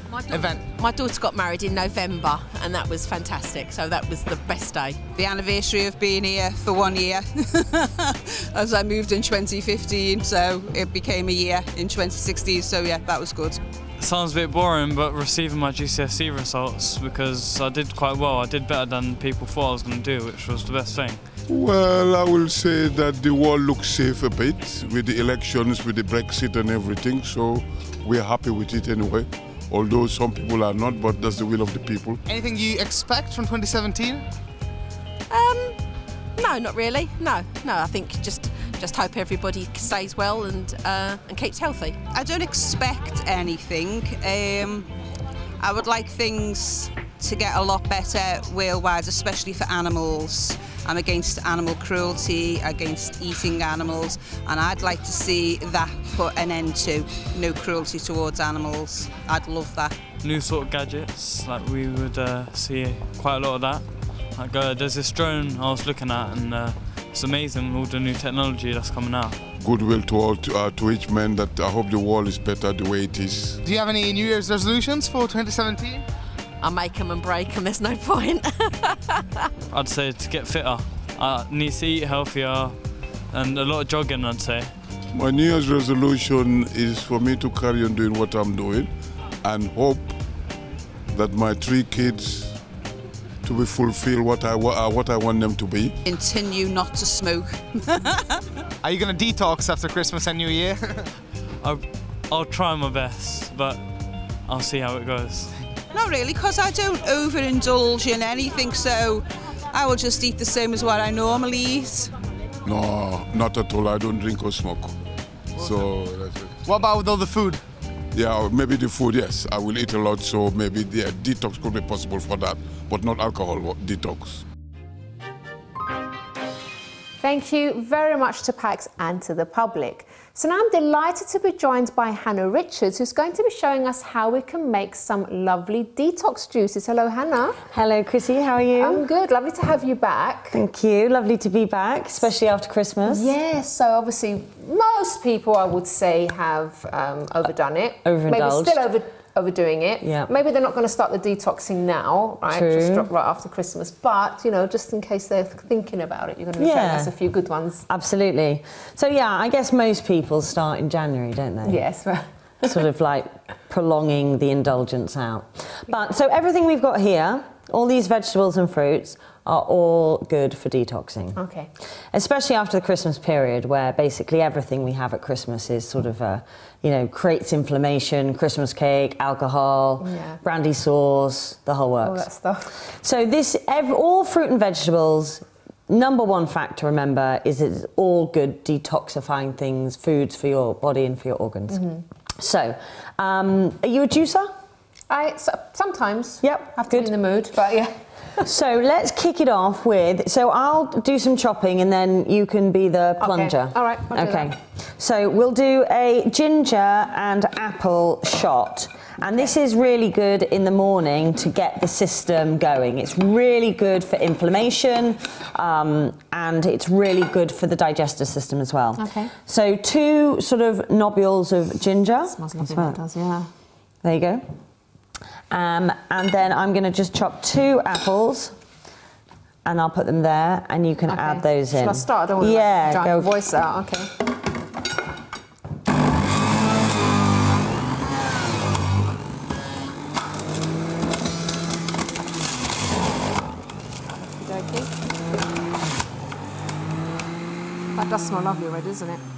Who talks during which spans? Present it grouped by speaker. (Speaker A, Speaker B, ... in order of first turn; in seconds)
Speaker A: 0.1-5.0, 35.3-42.0, 76.6-79.5
Speaker B: 0.3-0.7, 32.3-34.2, 73.6-76.1, 98.8-101.1, 115.6-115.9, 116.6-117.6
Speaker C: 5.1-13.6, 42.1-44.9, 45.6-60.0, 96.0-98.2, 105.9-112.2
Speaker D: 14.0-21.3, 60.2-69.4, 79.7-84.7, 101.6-105.6
Speaker E: 21.5-32.2, 69.6-73.6, 85.1-90.2, 91.1-92.7, 93.4-96.0, 112.7-115.0, 115.6-116.6, 118.1-124.4
Speaker F: 127.2-137.6, 138.8-140.6, 143.1-157.8, 161.6-162.3, 171.3-171.7, 180.0-180.4, 182.0-182.7, 191.7-192.0, 195.1-198.0, 203.2-204.5, 219.0-219.3, 222.3-223.5, 231.1-234.1, 244.1-244.9, 247.9-249.2
Speaker G: 137.7-139.0, 140.5-143.3, 148.0-148.8, 150.0-150.3, 152.5-153.1, 156.6-157.1, 157.9-161.8, 162.6-171.4, 172.1-182.3, 183.0-191.8, 192.4-194.5, 196.4-197.2, 198.4-223.0, 224.0-224.4, 225.5-228.6, 229.7-233.3